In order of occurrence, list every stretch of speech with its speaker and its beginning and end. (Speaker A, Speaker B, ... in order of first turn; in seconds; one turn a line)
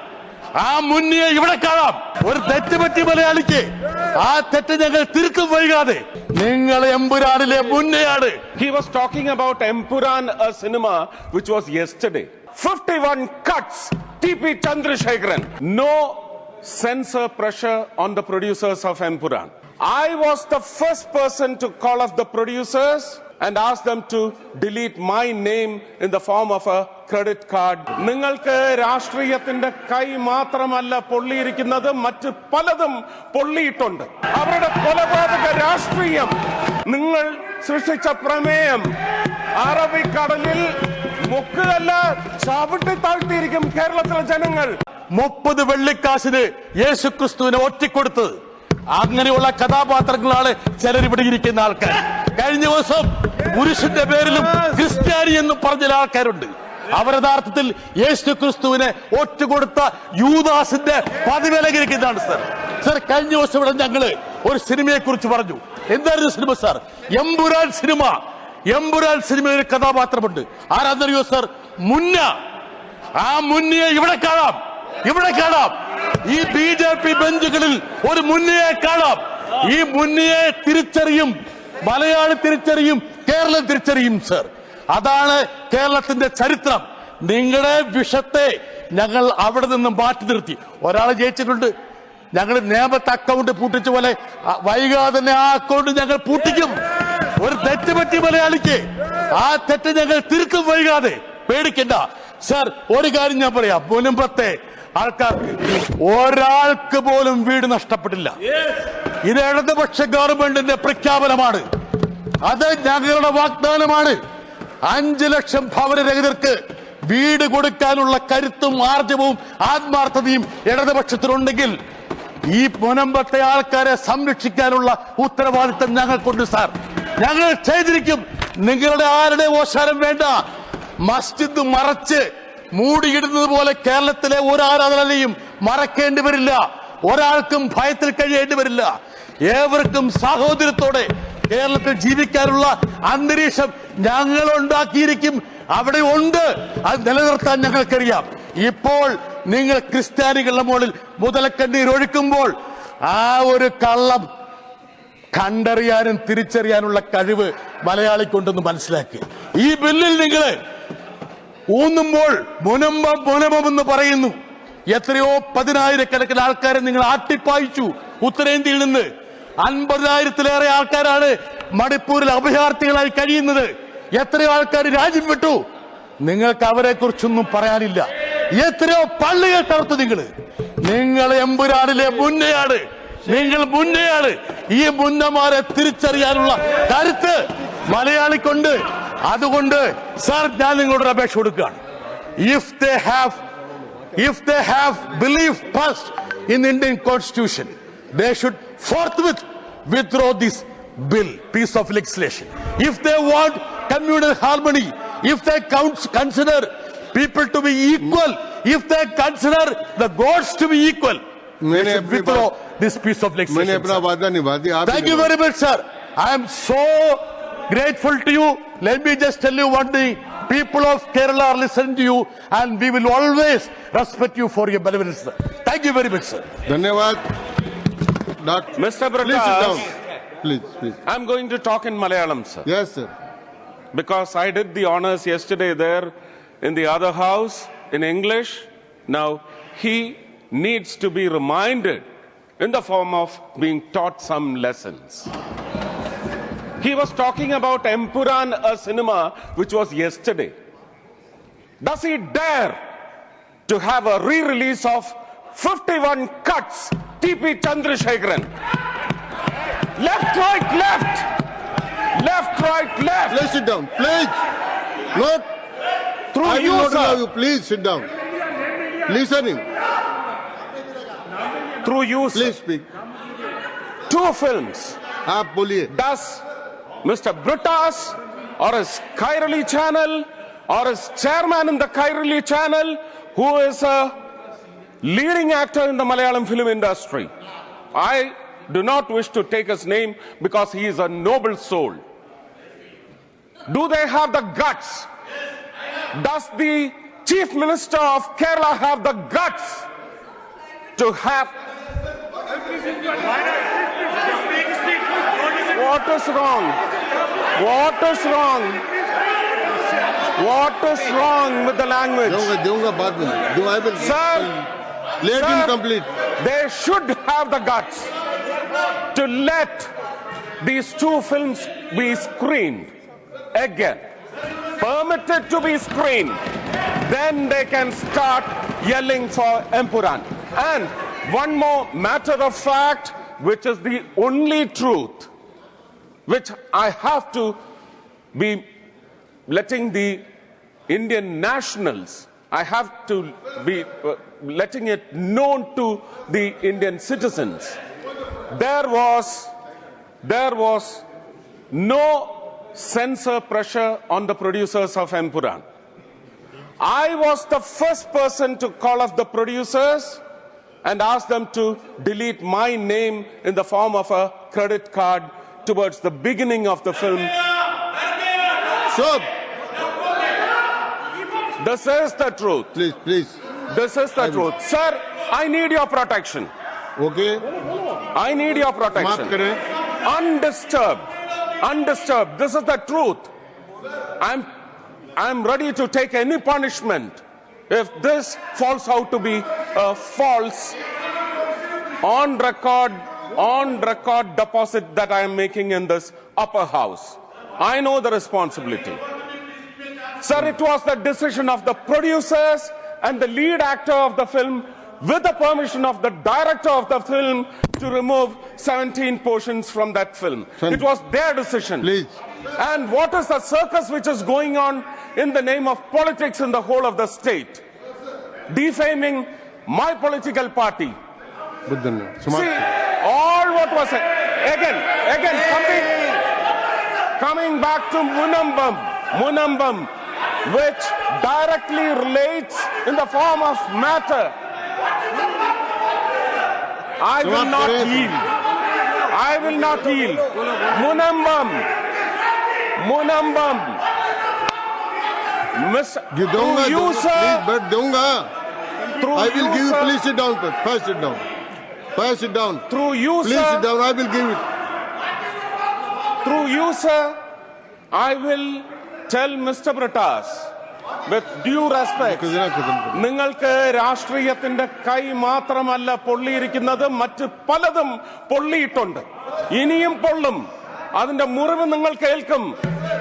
Speaker A: 0.6-3.7
Speaker A: 4.2-8.4
Speaker B: 8.6-36.3
Speaker B: 36.9-38.9
Speaker B: 39.6-40.6
Speaker B: 41.2-44.7
Speaker A: 45.1-48.4
Speaker A: 48.9-72.3
Speaker A: 73.2-91.7
Speaker A: 92.3-96.8
Speaker A: 97.4-108.3
Speaker A: 109.2-111.6
Speaker A: 112.4-114.2
Speaker A: 114.8-121.8
Speaker A: 122.5-130.4
Speaker A: 131.0-138.9
Speaker A: 139.5-152.5
Speaker A: 153.1-154.3
Speaker A: 155.3-160.6
Speaker A: 161.7-164.3
Speaker A: 164.9-169.1
Speaker A: 169.6-175.6
Speaker A: 176.2-180.3
Speaker A: 180.8-191.8
Speaker A: 192.4-193.4
Speaker A: 194.2-211.2
Speaker C: 211.6-212.5
Speaker A: 211.7-214.0
Speaker C: 213.5-215.3
Speaker A: 214.8-226.4
Speaker C: 226.7-227.2
Speaker C: 228.4-229.9
Speaker B: 228.8-229.9
Speaker C: 230.4-231.0
Speaker B: 231.1-232.6
Speaker C: 232.6-233.1
Speaker B: 233.9-236.1
Speaker B: 236.6-242.0
Speaker B: 242.6-245.3
Speaker B: 246.8-250.5
Speaker B: 251.8-252.8
Speaker B: 253.7-258.5
Speaker B: 260.0-261.3
Speaker B: 262.1-263.5
Speaker C: 263.3-264.4
Speaker C: 265.1-265.4
Speaker B: 266.3-267.2
Speaker C: 266.4-268.1
Speaker C: 269.1-269.6
Speaker B: 271.8-272.5
Speaker C: 272.3-272.9
Speaker B: 274.1-275.0
Speaker C: 275.2-275.9
Speaker B: 275.9-276.4
Speaker B: 277.0-284.1
Speaker B: 285.0-287.3
Speaker B: 287.9-292.0
Speaker B: 293.7-295.1
Speaker B: 296.2-299.9
Speaker B: 301.0-301.5
Speaker B: 305.7-306.8
Speaker B: 307.6-308.8
Speaker B: 310.4-312.5
Speaker C: 312.2-314.5
Speaker B: 314.0-314.6
Speaker C: 315.2-316.1
Speaker B: 315.3-315.7
Speaker B: 316.4-318.1
Speaker B: 319.1-319.9
Speaker B: 320.6-322.9
Speaker B: 323.5-324.0
Speaker B: 324.8-326.4
Speaker B: 327.0-335.3
Speaker B: 336.3-337.6
Speaker B: 338.3-338.6
Speaker B: 339.5-340.2
Speaker B: 340.9-347.8
Speaker B: 348.5-349.5
Speaker B: 350.2-351.0
Speaker B: 351.7-355.6
Speaker B: 356.8-360.2
Speaker B: 360.8-367.3
Speaker C: 368.9-369.2
Speaker B: 371.6-372.7
Speaker C: 372.7-373.4
Speaker B: 373.7-376.5
Speaker C: 374.2-374.5
Speaker C: 377.0-377.4
Speaker B: 378.1-379.3
Speaker C: 379.0-379.6
Speaker B: 380.0-381.0
Speaker B: 381.6-383.3
Speaker B: 384.2-384.4
Speaker B: 385.1-390.8
Speaker B: 392.0-399.0
Speaker B: 400.2-411.9
Speaker C: 411.8-412.1
Speaker B: 412.6-417.6
Speaker B: 418.5-420.9
Speaker C: 421.7-422.6
Speaker B: 422.3-426.1
Speaker B: 427.2-429.9
Speaker B: 430.4-434.3
Speaker B: 437.0-438.3
Speaker C: 437.2-438.1
Speaker B: 439.1-441.7
Speaker B: 442.8-443.8
Speaker B: 445.5-447.4
Speaker C: 446.1-448.3
Speaker B: 449.0-450.0
Speaker C: 449.1-451.2
Speaker C: 451.9-452.6
Speaker B: 452.7-453.6
Speaker C: 453.2-454.4
Speaker B: 456.2-457.1
Speaker B: 457.9-460.5
Speaker B: 461.1-462.3
Speaker C: 462.0-463.0
Speaker B: 462.9-470.4
Speaker B: 470.9-472.5